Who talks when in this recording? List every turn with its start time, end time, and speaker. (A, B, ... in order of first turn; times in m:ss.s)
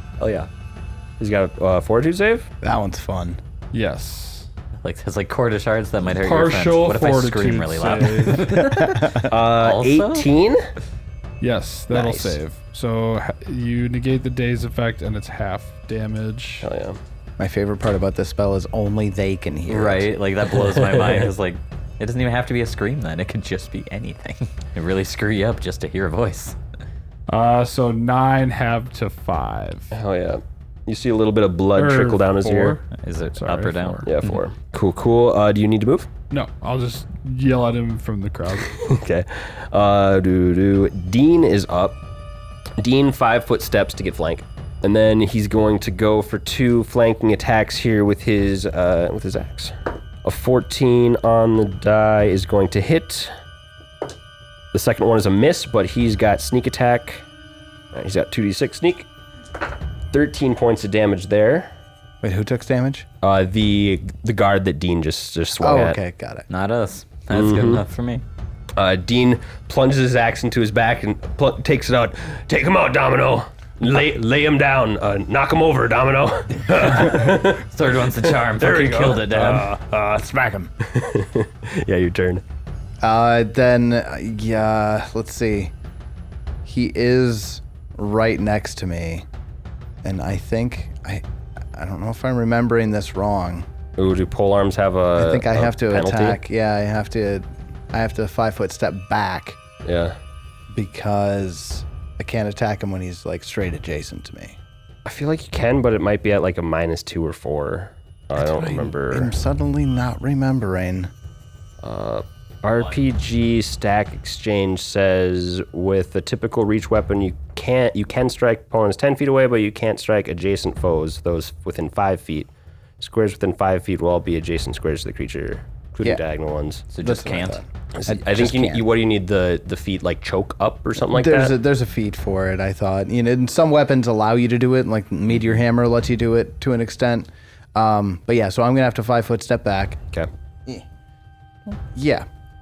0:00.2-0:00.5 A
0:01.2-0:02.5 A
0:02.6-0:03.4 B
0:03.7-0:04.5 C
0:04.8-0:10.3 D
0:06.1-0:08.6 C
0:08.7-0:09.2 B
0:09.2-0:10.6 A
0:11.4-0:16.7 C
0:11.9-0:12.4 A
0:16.6-0:17.0 A
0:17.4-0:20.1 B
0:19.7-0:26.6 D
0:20.6-0:21.3 A
0:27.3-0:29.9 C
0:29.9-0:32.8 A
0:31.7-0:32.8 C
0:32.9-0:34.4 D
0:33.4-0:34.1 C
0:34.0-0:36.1 A
0:36.3-0:38.8 C
0:38.7-0:42.0 A
0:42.8-0:49.7 A
0:50.2-0:53.3 A
0:54.7-0:57.2 A
0:57.9-0:59.1 A
1:00.1-1:01.7 A
1:02.2-1:03.0 B
1:03.2-1:06.0 A
1:05.6-1:06.4 B
1:06.5-1:08.2 D
1:07.3-1:07.8 A
1:08.8-1:17.6 A
1:17.5-1:19.7 D
1:18.6-1:19.5 A
1:19.0-1:20.7 B
1:20.8-1:22.4 A
1:23.0-1:25.7 B
1:26.6-1:29.2 B
1:30.0-1:33.7 B
1:34.0-1:36.4 A
1:35.2-1:39.6 B
1:39.8-1:40.2 A
1:40.7-1:44.6 B
1:45.0-1:49.3 A
1:48.4-1:51.1 B
1:51.8-2:06.8 A
2:06.9-2:07.6 D
2:07.0-2:08.9 B
2:07.9-2:11.5 A
2:11.1-2:20.0 B
2:21.7-2:22.3 B